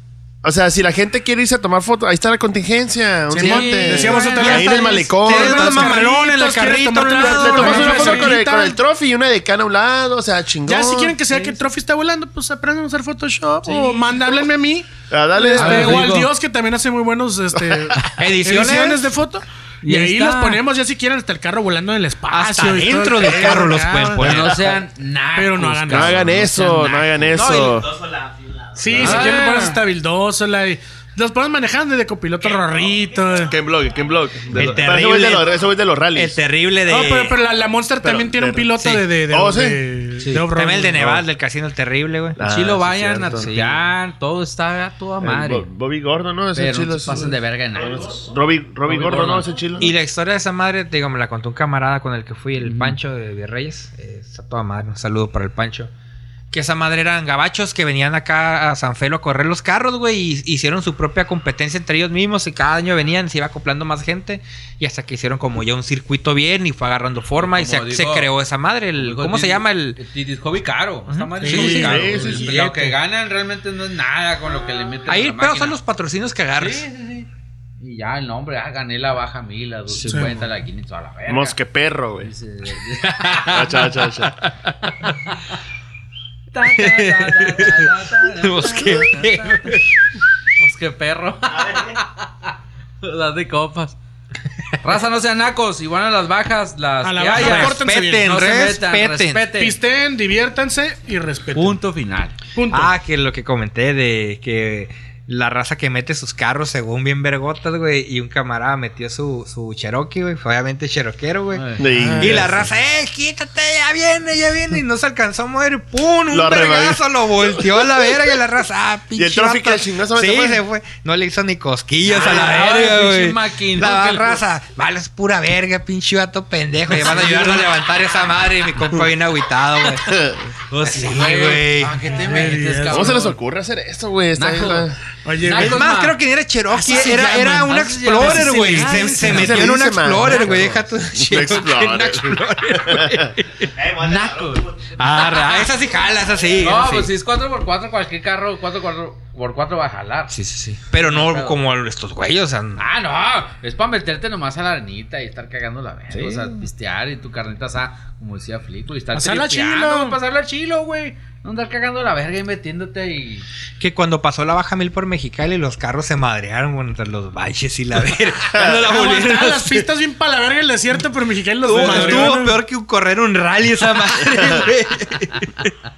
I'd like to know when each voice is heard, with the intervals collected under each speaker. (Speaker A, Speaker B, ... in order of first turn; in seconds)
Speaker A: 0.4-6.0, 7.2-11.2, 15.1-16.2, 17.6-18.0, 25.9-27.9, 28.9-29.2, 33.5-36.4, 38.0-38.7, 39.3-39.8, 40.9-41.2, 42.4-43.5, 45.2-49.9, 71.6-72.5, 81.3-82.3, 83.5-84.3, 111.8-112.7, 116.3-118.2, 119.1-120.6, 130.0-130.4, 132.9-135.0, 139.2-143.3, 168.5-168.8
Speaker B: 3.3-8.8, 10.7-24.8, 25.4-26.3, 28.8-33.5, 36.9-41.2, 71.4-72.3, 80.0-80.5, 97.0-98.3, 99.6-101.8, 102.6-102.9, 111.9-112.6, 132.1-133.3, 135.2-135.8, 138.8-139.1, 159.1-160.2, 168.8-172.6
Speaker C: 3.4-4.7, 7.8-8.1, 11.3-11.6, 13.6-14.2, 15.6-16.3, 19.8-20.6, 24.2-27.6, 29.0-29.8, 42.4-45.7, 46.5-48.3, 48.9-49.5, 52.6-53.0, 67.4-68.3, 69.0-75.8, 76.6-81.6, 82.2-84.0, 85.0-85.6, 86.5-89.8, 90.6-94.0, 94.8-99.8, 101.5-102.4, 111.5-112.3, 122.1-124.4, 126.9-127.7, 130.7-133.4, 134.4-136.2, 136.7-140.6, 143.9-145.7, 146.6-150.4, 150.9-151.6, 152.8-163.5, 171.7-172.4
Speaker D: 4.1-8.4, 18.2-19.1, 22.3-24.6, 27.3-27.8, 29.1-29.7, 34.5-35.5, 36.1-37.4, 38.8-39.1, 40.2-42.4, 43.2-43.9, 49.8-55.9, 56.5-70.0, 71.1-72.9, 75.1-76.9, 83.3-85.1, 86.7-89.9, 97.3-99.5, 102.7-130.2, 130.8-132.0, 135.5-143.7, 145.0-147.1, 150.3-152.8, 156.1-156.6, 163.8-169.9, 171.6-175.7
Speaker E: 27.4-29.3, 32.4-35.7, 47.8-48.4, 49.1-49.8, 91.5-92.0, 143.6-145.6